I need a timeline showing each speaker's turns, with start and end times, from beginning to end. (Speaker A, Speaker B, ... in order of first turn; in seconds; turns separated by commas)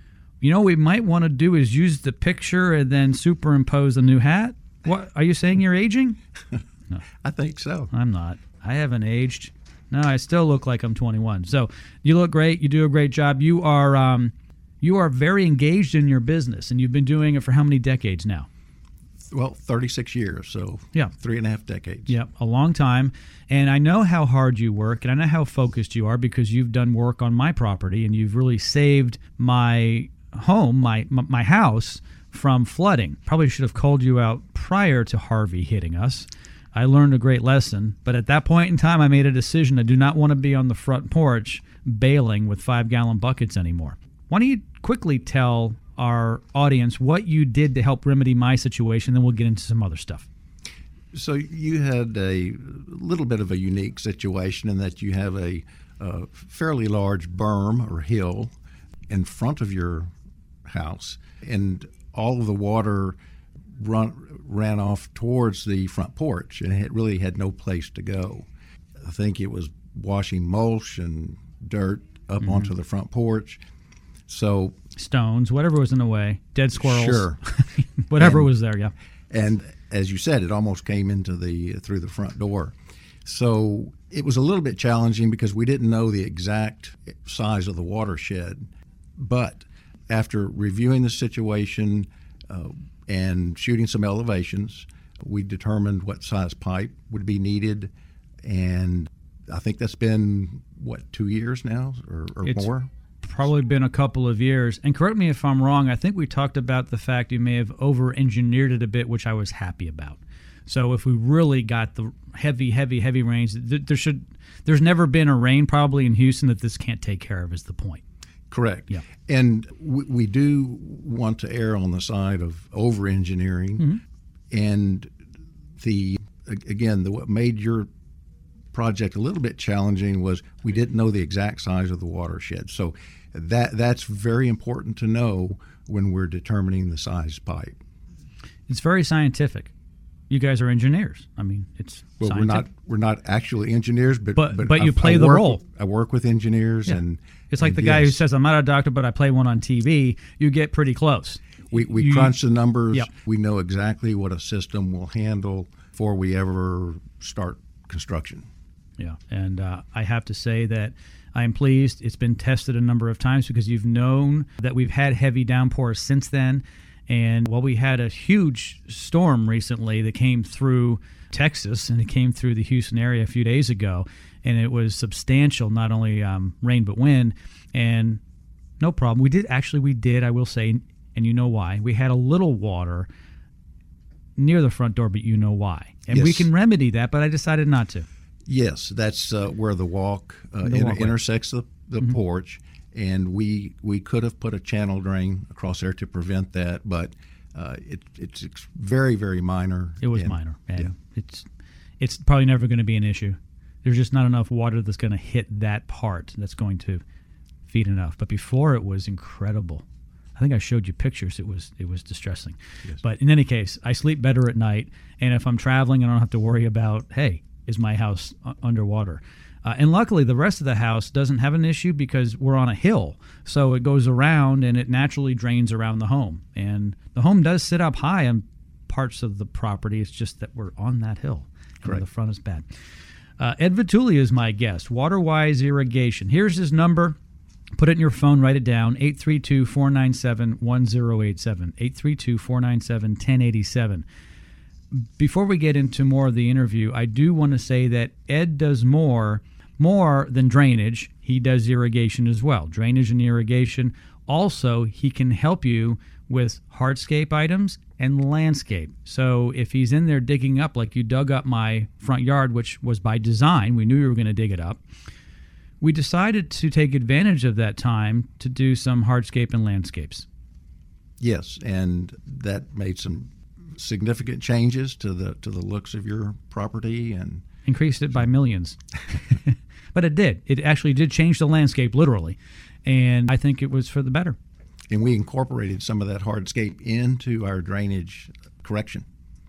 Speaker A: 0.4-6.2, Speaker B: 7.2-7.9, Speaker A: 7.9-18.5, Speaker B: 19.3-22.2, Speaker A: 22.1-50.3, Speaker B: 51.1-58.5, Speaker B: 59.1-60.1, Speaker B: 60.7-63.2, Speaker B: 63.8-68.5, Speaker B: 69.0-73.6, Speaker A: 72.4-72.7, Speaker B: 74.3-74.8, Speaker A: 75.0-78.9, Speaker B: 76.8-77.4, Speaker B: 78.2-78.5, Speaker B: 79.3-82.7, Speaker B: 83.2-88.7, Speaker B: 89.2-97.9, Speaker B: 98.4-102.9, Speaker A: 102.4-102.7, Speaker A: 103.2-118.0, Speaker B: 118.5-124.0, Speaker B: 124.5-125.1, Speaker B: 125.8-127.9, Speaker B: 128.7-137.8, Speaker A: 138.7-139.7, Speaker A: 140.3-142.7, Speaker B: 142.2-148.2, Speaker A: 144.4-145.6, Speaker A: 146.9-152.3, Speaker B: 151.7-158.5, Speaker A: 159.0-178.2, Speaker A: 178.8-183.1, Speaker A: 184.4-188.1, Speaker B: 186.1-186.5, Speaker B: 188.5-200.9, Speaker A: 190.6-191.2, Speaker A: 200.0-201.5, Speaker A: 202.0-207.0, Speaker A: 207.7-209.8, Speaker A: 210.4-232.7, Speaker A: 233.4-237.2, Speaker A: 237.8-244.1, Speaker A: 244.9-264.8, Speaker A: 265.8-270.3, Speaker B: 271.2-277.4, Speaker A: 277.6-278.8, Speaker A: 279.9-284.4, Speaker B: 284.9-289.1